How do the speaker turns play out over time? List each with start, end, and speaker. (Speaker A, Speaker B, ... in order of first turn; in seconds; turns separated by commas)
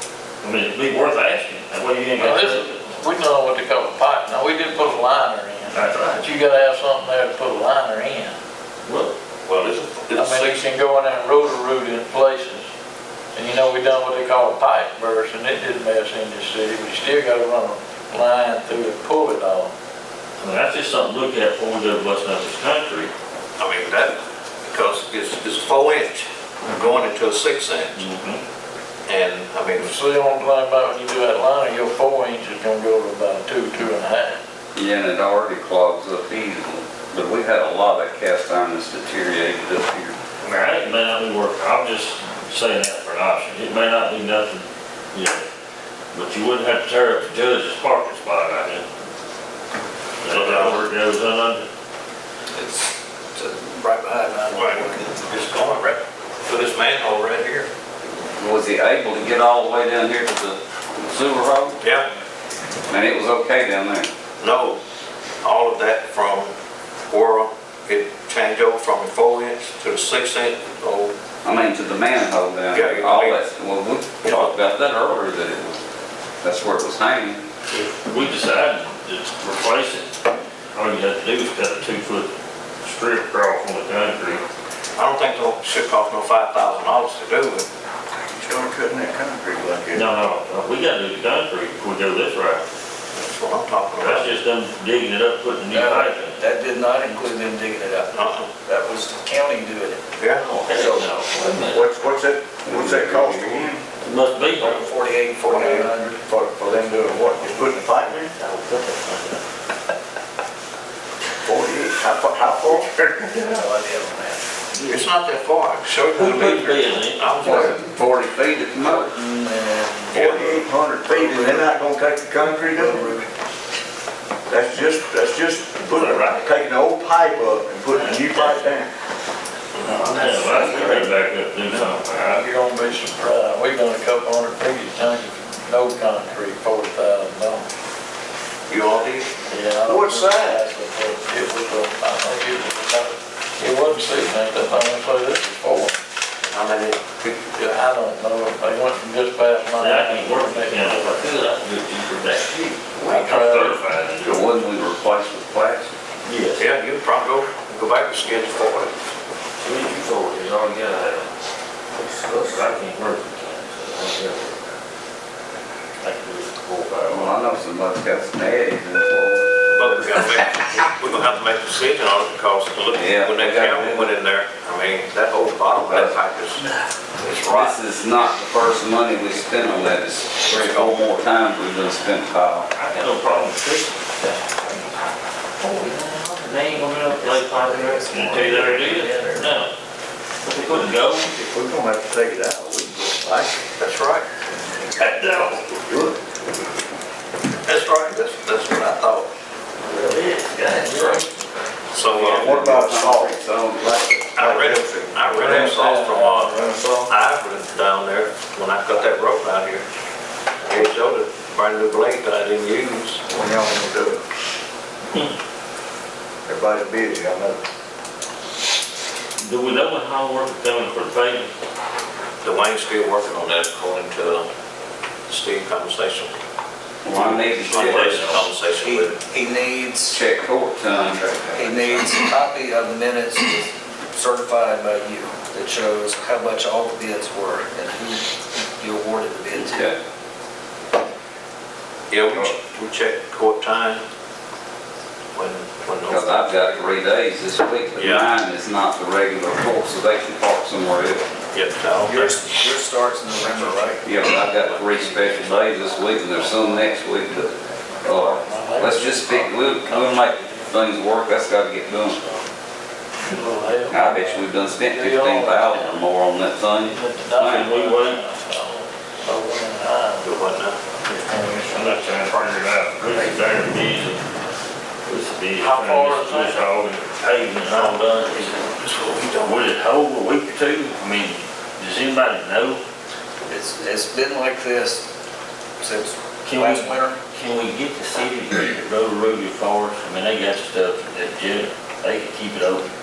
Speaker A: 0.4-2.8, Speaker B: 2.2-8.3, Speaker A: 5.7-6.3, Speaker A: 8.8-9.1, Speaker C: 9.4-10.7, Speaker B: 10.1-12.7, Speaker B: 13.3-19.7, Speaker A: 20.4-23.1, Speaker C: 23.6-28.0, Speaker A: 27.9-28.4, Speaker C: 29.1-30.0, Speaker B: 29.8-34.4, Speaker D: 34.7-40.1, Speaker A: 40.4-45.5, Speaker A: 46.1-48.9, Speaker A: 50.2-51.7, Speaker C: 50.3-50.8, Speaker E: 52.5-55.1, Speaker C: 54.5-57.7, Speaker D: 58.4-61.8, Speaker C: 61.8-62.0, Speaker D: 62.9-64.1, Speaker C: 64.4-64.8, Speaker C: 65.4-66.5, Speaker C: 67.1-71.1, Speaker D: 71.4-75.8, Speaker C: 72.7-73.4, Speaker C: 74.2-75.0, Speaker D: 76.4-77.4, Speaker A: 77.7-80.1, Speaker A: 80.7-82.3, Speaker A: 82.8-84.4, Speaker C: 85.0-87.7, Speaker F: 88.3-90.2, Speaker A: 89.9-92.6, Speaker C: 93.1-94.3, Speaker A: 94.0-96.4, Speaker E: 95.7-98.1, Speaker C: 98.1-98.5, Speaker E: 98.6-100.0, Speaker C: 100.2-100.4, Speaker A: 100.4-101.8, Speaker F: 100.7-103.8, Speaker D: 102.7-103.7, Speaker A: 104.0-104.8, Speaker E: 104.6-106.2, Speaker F: 105.4-108.3, Speaker A: 107.2-109.4, Speaker F: 111.4-113.4, Speaker E: 113.4-114.4, Speaker A: 114.7-115.0, Speaker C: 114.8-117.8, Speaker A: 116.1-117.8, Speaker D: 117.4-119.1, Speaker E: 118.9-121.8, Speaker F: 120.1-123.2, Speaker E: 122.6-123.3, Speaker F: 124.5-128.9, Speaker A: 125.9-126.5, Speaker A: 128.1-128.5, Speaker A: 129.9-132.4, Speaker E: 130.3-130.9, Speaker B: 132.1-137.7, Speaker C: 138.7-139.3, Speaker B: 139.4-146.0, Speaker F: 139.8-140.7, Speaker C: 146.5-147.0, Speaker B: 147.5-151.5, Speaker A: 149.8-154.5, Speaker B: 153.0-153.8, Speaker D: 154.2-155.9, Speaker A: 156.2-156.7, Speaker C: 156.6-158.9, Speaker A: 159.6-161.3, Speaker A: 162.0-164.7, Speaker A: 166.0-167.5, Speaker D: 167.1-169.5, Speaker C: 169.7-176.7, Speaker D: 172.9-174.1, Speaker D: 175.9-176.2, Speaker C: 177.2-177.8, Speaker D: 177.5-182.7, Speaker C: 180.4-181.1, Speaker A: 182.7-184.2, Speaker B: 184.2-184.9, Speaker A: 185.6-189.7, Speaker E: 187.3-189.4, Speaker A: 190.4-191.3, Speaker F: 191.1-193.6, Speaker C: 193.8-194.2, Speaker A: 194.9-196.0, Speaker F: 195.9-196.1, Speaker C: 197.6-199.3, Speaker A: 199.9-201.3, Speaker C: 201.9-202.5, Speaker D: 202.1-204.0, Speaker F: 202.3-205.8, Speaker C: 204.3-209.8, Speaker B: 205.3-206.7, Speaker F: 206.4-207.1, Speaker C: 210.6-213.2, Speaker F: 213.3-214.2, Speaker F: 216.4-217.6, Speaker A: 219.4-221.5, Speaker C: 222.4-224.5, Speaker C: 225.3-226.4, Speaker D: 227.0-228.4, Speaker A: 227.1-228.5, Speaker C: 227.6-229.2, Speaker E: 228.7-230.2, Speaker D: 230.1-232.1, Speaker E: 231.6-239.9, Speaker D: 239.5-239.9, Speaker C: 242.1-244.0, Speaker C: 245.3-246.8, Speaker D: 246.1-251.2, Speaker C: 247.9-248.3, Speaker C: 251.5-252.4, Speaker E: 252.0-254.1, Speaker C: 254.0-256.4, Speaker D: 254.0-257.5, Speaker D: 258.0-262.2, Speaker B: 258.0-261.3, Speaker B: 261.9-262.4, Speaker B: 263.2-266.0, Speaker D: 263.9-267.7, Speaker B: 266.8-272.2, Speaker A: 267.4-268.2, Speaker C: 270.2-270.8, Speaker A: 271.1-274.2, Speaker A: 275.0-278.5, Speaker B: 275.6-276.7, Speaker B: 277.6-278.1, Speaker C: 277.6-279.6, Speaker A: 279.4-282.8, Speaker E: 283.4-285.0, Speaker E: 285.8-287.2, Speaker A: 286.4-292.9